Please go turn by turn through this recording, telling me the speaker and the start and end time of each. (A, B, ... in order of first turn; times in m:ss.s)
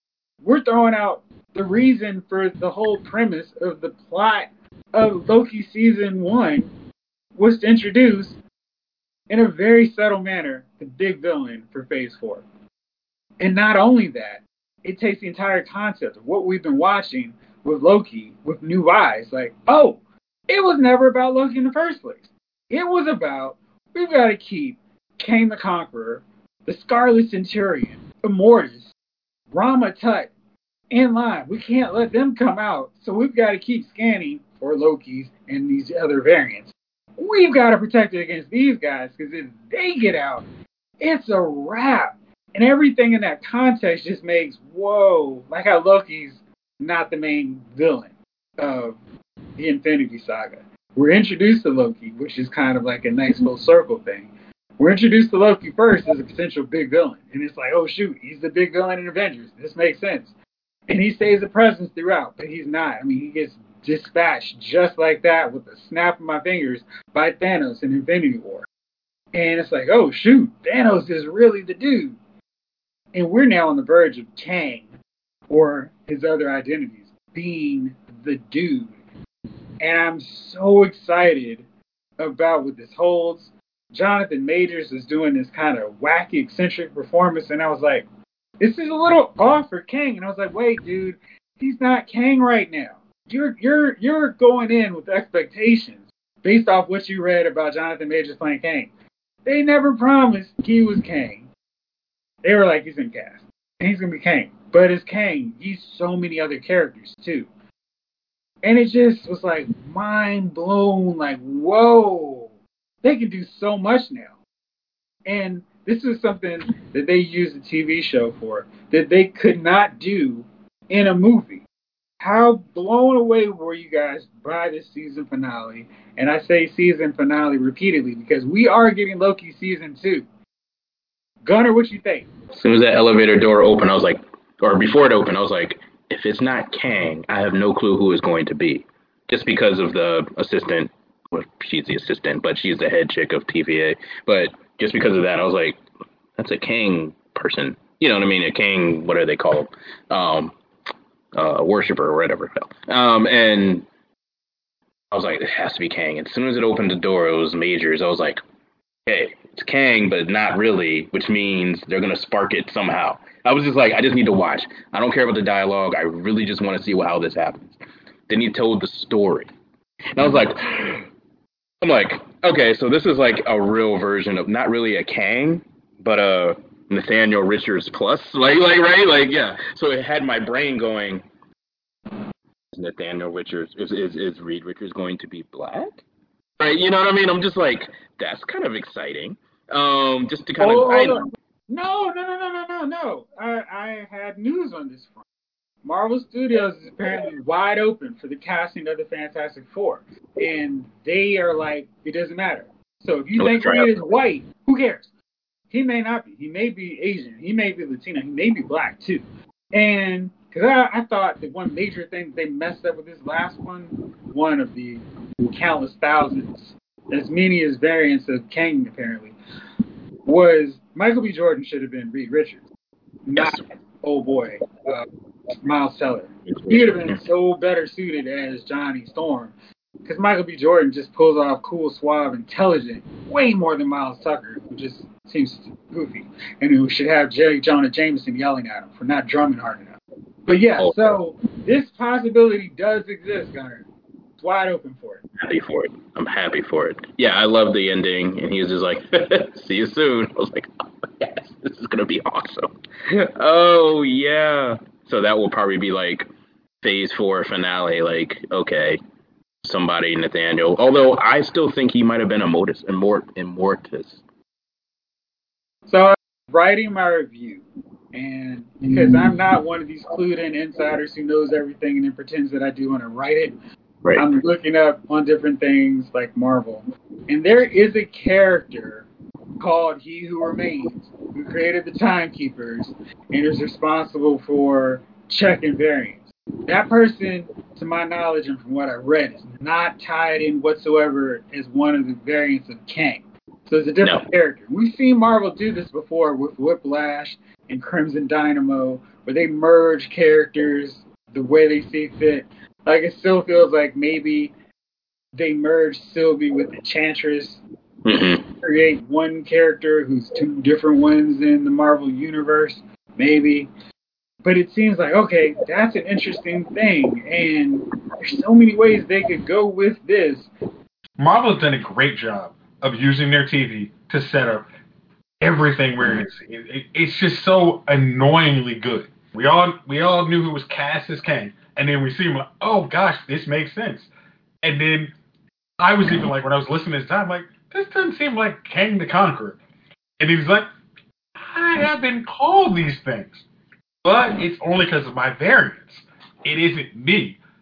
0:00.4-0:06.7 A
0:07.4-0:08.4 A
0:09.3-0:12.4 A
0:13.4-0:28.9 A
0:29.5-0:30.3 A
0:30.9-0:40.5 A
0:41.0-0:49.0 A
0:49.6-1:00.4 A
1:00.9-1:08.7 A
1:09.3-1:12.2 A
1:13.1-1:15.0 A
1:15.5-1:19.0 A
1:19.8-1:21.6 A
1:22.2-1:28.1 A
1:28.6-1:38.9 A
1:39.4-1:41.5 A
1:42.4-1:47.5 A
1:48.6-1:54.4 A
1:55.3-2:01.6 A
2:02.2-2:10.3 A
2:11.4-2:12.3 A
2:12.5-2:25.8 B
2:26.4-2:30.6 B
2:31.4-2:33.9 B
2:35.1-2:38.4 B
2:39.1-2:49.5 B
2:50.1-2:51.1 B
2:51.8-3:01.2 B
3:02.7-3:06.0 B
3:06.6-3:11.2 B
3:10.6-3:15.2 A
3:15.8-3:25.1 A
3:23.4-3:23.9 B
3:25.7-3:39.4 A
3:40.2-3:42.7 A
3:43.3-3:45.1 A
3:43.4-3:43.6 B
3:45.6-4:03.8 A
3:46.5-3:47.2 B
4:00.8-4:01.2 B
4:04.4-4:05.2 A
4:05.4-4:10.7 B
4:11.2-4:16.3 B
4:16.8-4:19.0 B
4:19.6-4:24.2 B
4:25.9-4:33.6 A
4:34.2-4:39.1 A
4:39.6-5:04.5 A
5:05.3-5:07.6 A
5:08.0-5:08.5 B
5:08.6-5:13.7 A
5:14.4-5:20.5 A
5:21.2-5:24.6 C
5:25.4-5:34.1 C
5:34.6-5:35.1 C
5:35.8-5:39.6 C
5:40.2-5:40.7 C
5:41.4-5:43.4 C
5:44.0-5:47.4 C